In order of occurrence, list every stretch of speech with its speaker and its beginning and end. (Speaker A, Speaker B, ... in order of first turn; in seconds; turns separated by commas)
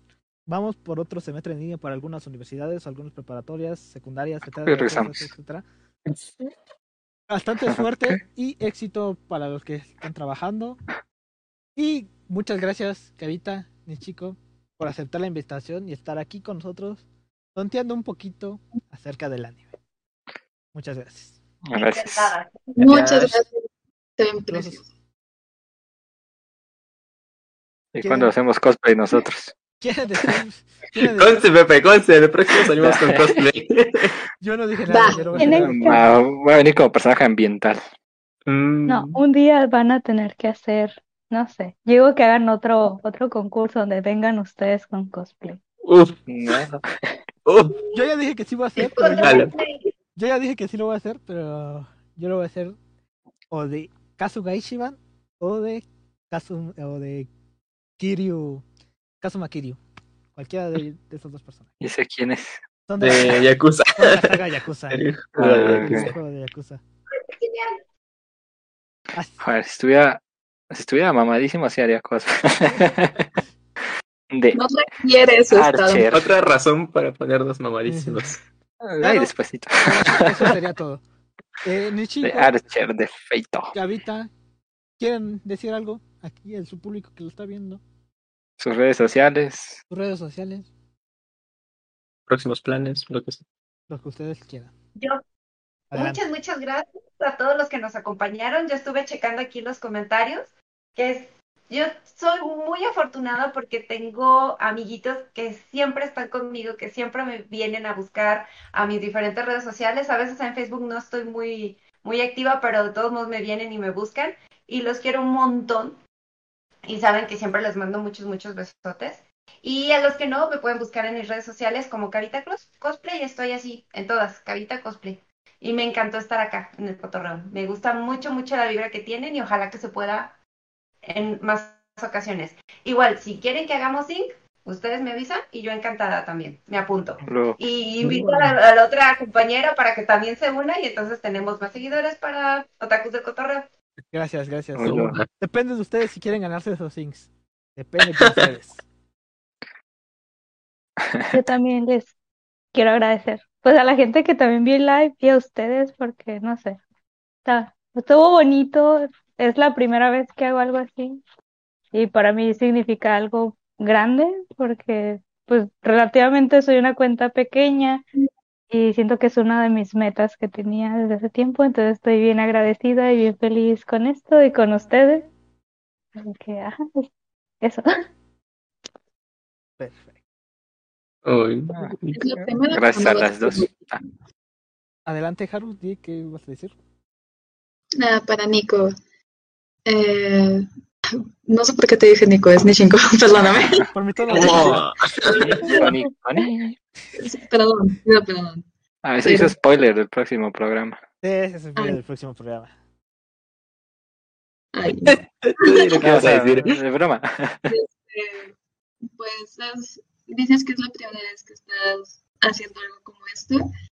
Speaker A: 0.5-5.6, Speaker B: 4.7-5.3, Speaker A: 7.3-10.8, Speaker B: 7.7-8.2, Speaker A: 11.8-17.0, Speaker A: 17.5-19.7, Speaker A: 20.7-21.4, Speaker B: 21.6-22.3, Speaker C: 21.7-22.9, Speaker D: 22.8-23.6, Speaker B: 22.9-23.3, Speaker D: 24.2-24.8, Speaker A: 24.5-24.8, Speaker B: 27.9-29.5, Speaker D: 28.0-28.3, Speaker A: 29.8-31.4, Speaker E: 31.0-34.1, Speaker B: 32.8-33.4, Speaker A: 34.4-36.1, Speaker D: 34.9-35.2, Speaker F: 35.4-36.0, Speaker B: 35.4-37.8, Speaker E: 38.5-39.2, Speaker F: 38.9-45.6, Speaker E: 45.8-46.2, Speaker B: 46.3-47.1, Speaker E: 47.4-47.8, Speaker A: 47.9-49.5, Speaker C: 48.8-49.9, Speaker E: 49.2-49.5, Speaker A: 50.1-52.8, Speaker A: 53.5-57.3, Speaker A: 58.0-58.6, Speaker A: 59.2-59.8, Speaker A: 60.3-61.7, Speaker B: 61.8-62.6, Speaker A: 62.9-63.4, Speaker E: 63.0-64.4, Speaker A: 64.0-66.8, Speaker E: 64.9-66.1, Speaker B: 65.3-66.1, Speaker C: 67.2-67.8, Speaker A: 69.1-69.4, Speaker B: 69.4-70.2, Speaker B: 70.7-73.3, Speaker B: 74.3-74.6, Speaker D: 74.5-76.1, Speaker B: 75.5-76.3, Speaker E: 76.1-78.4, Speaker A: 77.9-78.3, Speaker B: 78.8-80.5, Speaker A: 79.0-81.0, Speaker A: 81.6-82.5, Speaker B: 82.2-83.7, Speaker A: 83.7-84.3, Speaker A: 85.0-87.8, Speaker B: 88.6-89.8, Speaker A: 89.9-90.7, Speaker E: 92.3-93.4, Speaker A: 93.9-94.7, Speaker C: 95.0-95.2, Speaker A: 95.9-96.2, Speaker C: 95.9-116.0, Speaker C: 116.8-130.4, Speaker C: 131.0-143.7, Speaker B: 137.2-137.6, Speaker B: 138.1-138.5, Speaker A: 144.1-148.8, Speaker B: 144.8-145.2, Speaker E: 144.8-145.3, Speaker E: 148.2-148.5, Speaker B: 151.1-151.3, Speaker F: 151.3-152.1, Speaker F: 152.7-156.8, Speaker F: 157.4-161.2, Speaker F: 161.9-168.0, Speaker F: 168.7-175.3, Speaker F: 176.2-177.1, Speaker F: 177.6-177.9, Speaker A: 179.8-180.1, Speaker E: 181.2-182.2, Speaker B: 181.7-184.0, Speaker D: 182.1-184.0, Speaker A: 185.1-186.7, Speaker D: 188.0-188.9, Speaker D: 189.8-190.7, Speaker D: 191.4-195.9, Speaker A: 193.9-194.8, Speaker E: 194.3-195.8, Speaker B: 195.3-196.7, Speaker D: 197.2-198.6, Speaker B: 199.0-201.0, Speaker D: 199.2-199.5, Speaker A: 201.2-202.7, Speaker D: 204.7-205.9, Speaker E: 205.1-206.8, Speaker B: 205.9-207.7, Speaker D: 207.7-208.5, Speaker D: 209.1-213.6